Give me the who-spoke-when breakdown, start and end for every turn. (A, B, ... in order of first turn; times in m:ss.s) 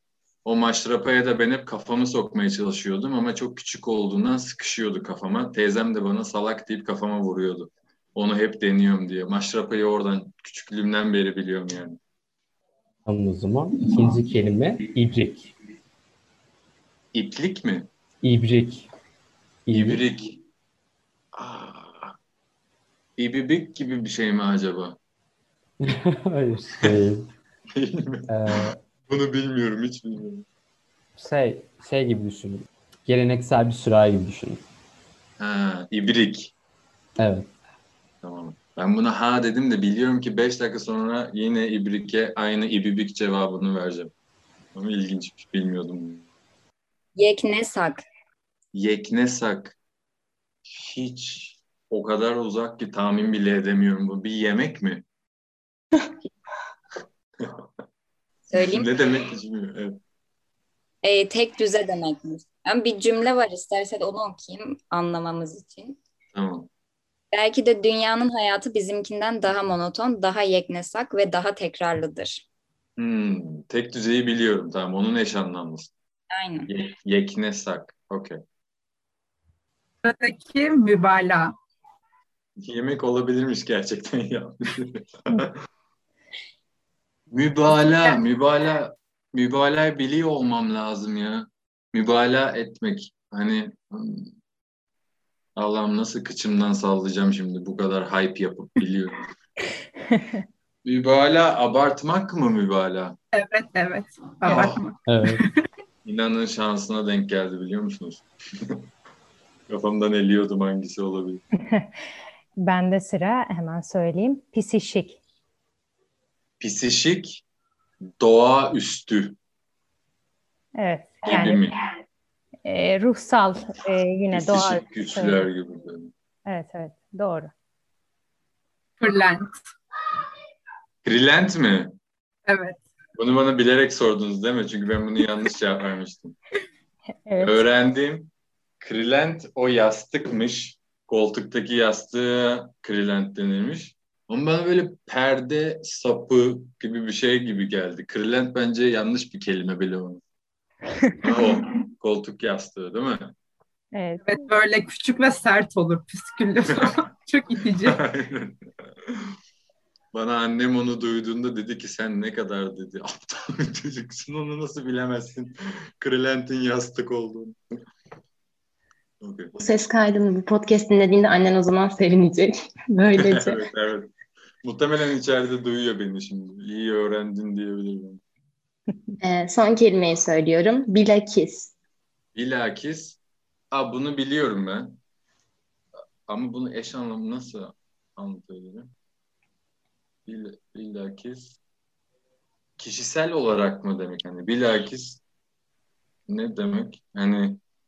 0:00.4-0:12.0 A
0:13.0-0:15.5 B
0:17.1-0:17.9 A
0:18.2-0:18.9 B
0:19.6-0:20.0 B
0:19.7-0:20.4 A
0:21.3-0:22.1 A
0:23.2-0:25.0 A
0:25.8-0:27.3 B
0:27.7-0:30.4 A
0:28.3-0:28.7 B
0:31.2-0:34.6 B
0:35.4-0:36.5 A
0:37.2-0:37.5 B
0:38.2-0:44.1 A
0:44.7-0:46.3 A
0:47.2-0:48.0 C
0:48.7-0:49.7 A
0:50.6-0:55.0 A
0:57.4-0:57.6 A
0:58.5-0:58.9 C
0:58.5-1:00.0 A
1:01.0-1:06.0 C
1:06.3-1:06.7 A
1:07.3-1:12.4 C
1:13.0-1:15.9 A
1:16.3-1:16.7 C
1:16.7-1:18.4 A
1:20.0-1:21.5 D
1:22.6-1:25.5 A
1:27.3-1:34.3 A
1:27.8-1:28.2 D
1:35.6-1:39.2 A
1:40.8-1:43.2 A
1:43.3-1:45.5 D
1:44.4-1:44.8 A
1:45.1-1:45.4 B
1:46.0-1:48.8 A
1:49.7-1:51.4 A
1:51.6-1:51.9 E
1:52.6-1:55.2 E
1:56.6-1:57.4 A
1:58.2-1:59.4 A
2:00.8-2:01.6 E
2:01.2-2:01.7 A
2:02.6-2:05.5 E
2:04.3-2:06.1 A
2:06.5-2:07.5 E
2:09.0-2:09.5 D
2:11.0-2:12.0 A
2:12.5-2:12.8 D
2:13.1-2:16.4 A
2:17.3-2:17.6 E
2:17.4-2:30.2 A
2:31.2-2:33.3 A
2:33.9-2:34.5 E
2:34.2-2:38.0 D
2:37.8-2:39.3 A
2:40.1-2:47.6 A
2:49.2-2:49.5 A
2:49.6-2:53.6 F
2:53.1-2:58.2 A
2:59.2-3:01.7 F
3:02.3-3:03.2 A
3:03.7-3:05.0 A
3:06.3-3:08.9 A
3:10.2-3:11.6 A
3:12.8-3:15.2 A
3:16.3-3:17.6 A